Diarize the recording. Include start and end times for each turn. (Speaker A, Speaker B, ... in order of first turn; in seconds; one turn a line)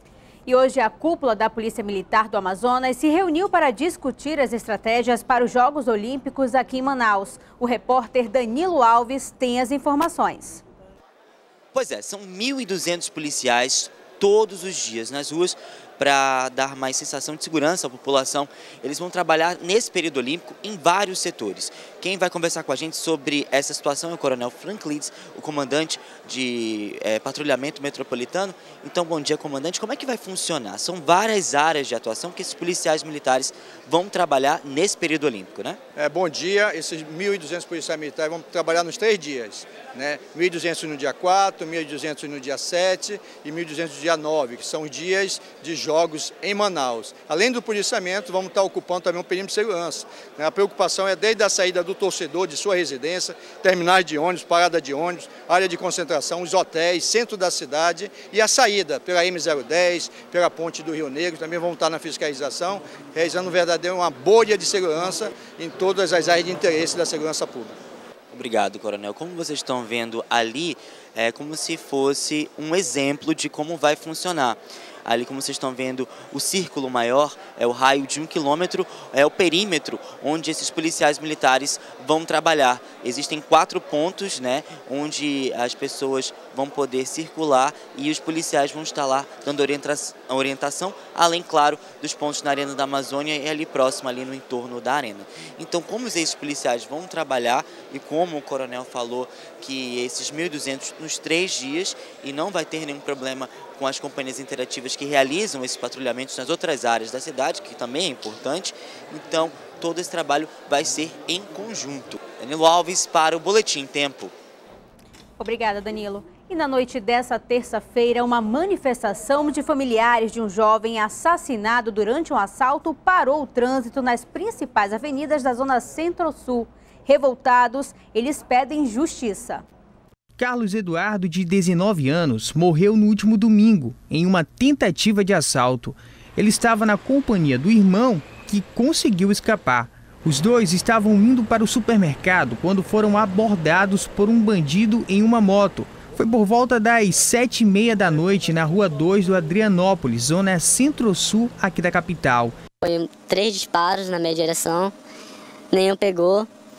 Speaker A: 0.5-10.6
Speaker B: 11.7-35.8
Speaker C: 36.0-67.7
Speaker B: 68.3-114.3
Speaker A: 115.4-129.6
Speaker D: 130.4-152.5
Speaker E: 152.8-154.9
Speaker E: 155.7-156.5